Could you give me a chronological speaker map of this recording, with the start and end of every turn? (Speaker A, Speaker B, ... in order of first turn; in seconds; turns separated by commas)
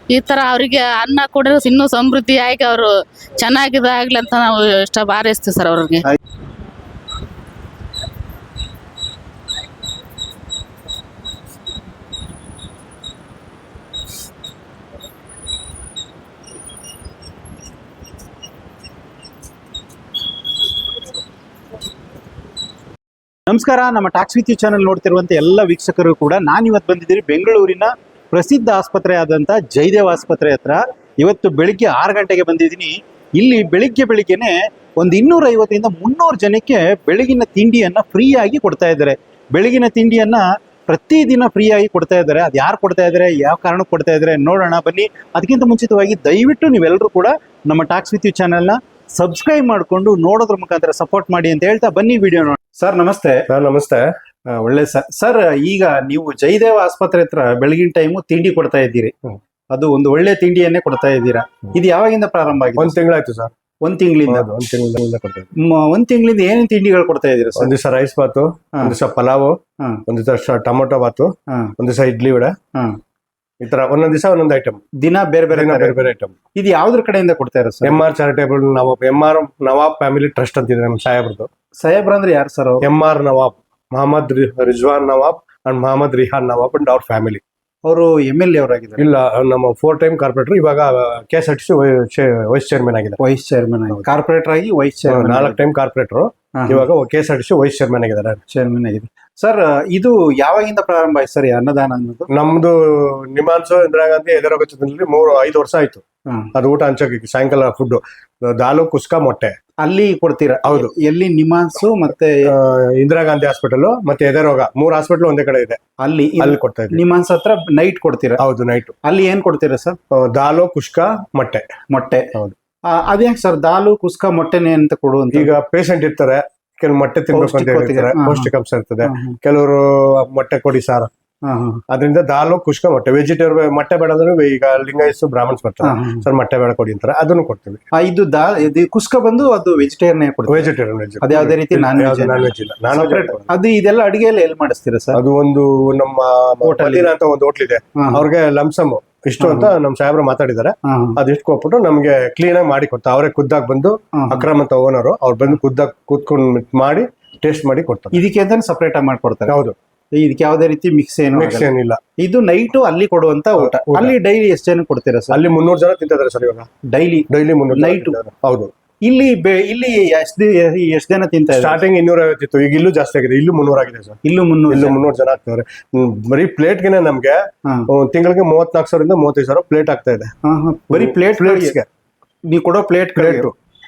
Speaker A: 0.1-6.0, Speaker B: 23.5-53.5, Speaker C: 53.5-54.1, Speaker B: 54.5-59.1, Speaker B: 59.7-63.0, Speaker C: 62.8-63.5, Speaker B: 63.8-64.5, Speaker C: 64.3-65.5, Speaker B: 65.6-67.7, Speaker C: 67.6-72.5, Speaker C: 73.6-74.8, Speaker B: 75.0-76.0, Speaker C: 75.5-76.3, Speaker B: 76.5-78.0, Speaker C: 77.8-81.5, Speaker B: 81.8-82.9, Speaker C: 82.8-87.4, Speaker B: 87.9-89.0, Speaker C: 89.0-93.2, Speaker B: 93.2-95.6, Speaker C: 95.1-98.4, Speaker B: 96.5-96.8, Speaker B: 98.5-102.3, Speaker C: 102.3-106.0, Speaker C: 106.5-109.5, Speaker B: 109.8-112.5, Speaker C: 110.6-110.9, Speaker C: 112.4-115.8, Speaker B: 116.0-118.4, Speaker C: 116.4-117.0, Speaker C: 118.4-118.9, Speaker B: 119.0-120.0, Speaker C: 120.1-121.7, Speaker B: 121.9-122.3, Speaker B: 122.8-125.6, Speaker C: 125.3-131.1, Speaker B: 127.3-128.5, Speaker B: 129.0-129.4, Speaker B: 131.4-131.8, Speaker C: 131.9-137.8, Speaker B: 135.8-136.2, Speaker B: 137.9-140.7, Speaker C: 140.5-143.5, Speaker B: 141.2-145.2, Speaker C: 145.1-158.2, Speaker B: 146.6-147.1, Speaker B: 148.0-148.2, Speaker B: 149.4-149.7, Speaker B: 150.8-151.2, Speaker B: 154.2-154.4, Speaker B: 158.1-159.5, Speaker C: 159.5-159.7, Speaker B: 160.1-165.4, Speaker C: 161.3-162.0, Speaker C: 163.6-164.1, Speaker C: 165.3-166.7, Speaker B: 166.8-168.2, Speaker C: 167.3-168.7, Speaker B: 169.0-171.8, Speaker C: 171.5-180.3, Speaker B: 174.2-175.0, Speaker B: 180.4-181.8, Speaker C: 180.9-181.9, Speaker B: 182.5-183.5, Speaker C: 183.2-183.5